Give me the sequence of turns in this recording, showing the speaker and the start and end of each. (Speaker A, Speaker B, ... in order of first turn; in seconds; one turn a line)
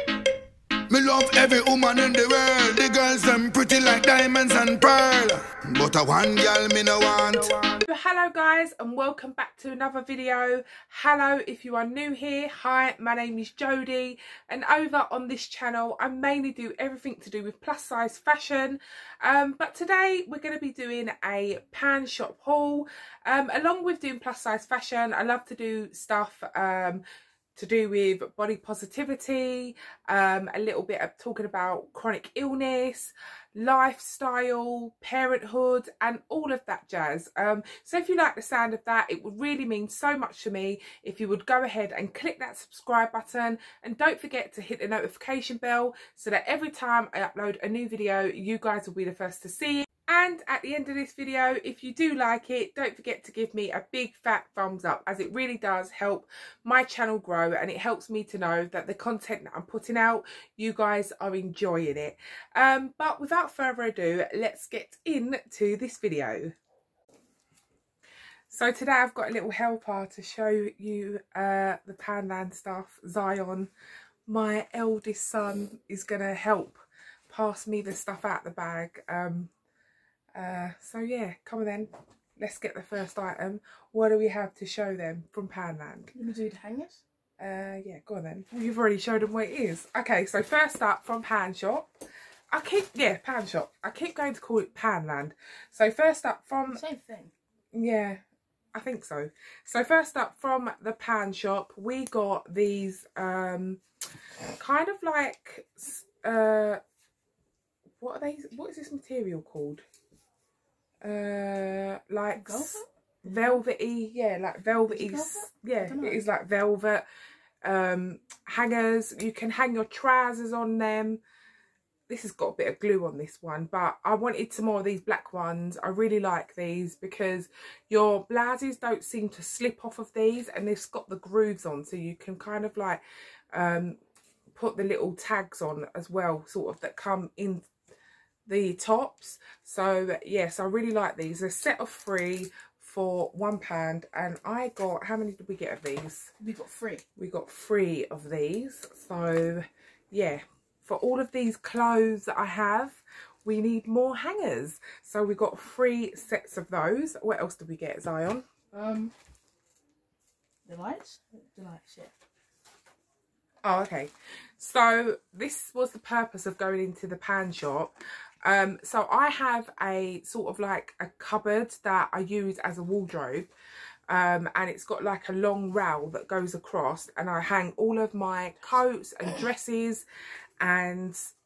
Speaker A: 0.9-7.6
Speaker B: 7.3-27.0
Speaker B: 27.6-66.5
Speaker B: 68.5-73.7
Speaker B: 74.3-79.5
Speaker B: 80.3-86.1
Speaker C: 86.2-87.0
Speaker B: 87.4-91.9
Speaker B: 92.5-96.8
Speaker C: 96.7-97.3
Speaker B: 97.7-98.2
Speaker B: 98.8-103.8
Speaker B: 104.6-106.8
Speaker B: 108.0-109.8
Speaker B: 111.0-117.0
Speaker C: 112.4-113.6
Speaker C: 114.9-116.2
Speaker B: 117.6-121.2
Speaker B: 122.1-133.0
Speaker B: 133.5-134.0
Speaker B: 134.6-137.7
Speaker B: 138.5-146.3
Speaker C: 146.4-147.0
Speaker B: 147.2-158.4
Speaker C: 158.7-159.1
Speaker C: 160.7-162.1
Speaker B: 163.6-167.9
Speaker B: 168.4-173.5
Speaker B: 174.1-180.1
Speaker B: 180.6-181.3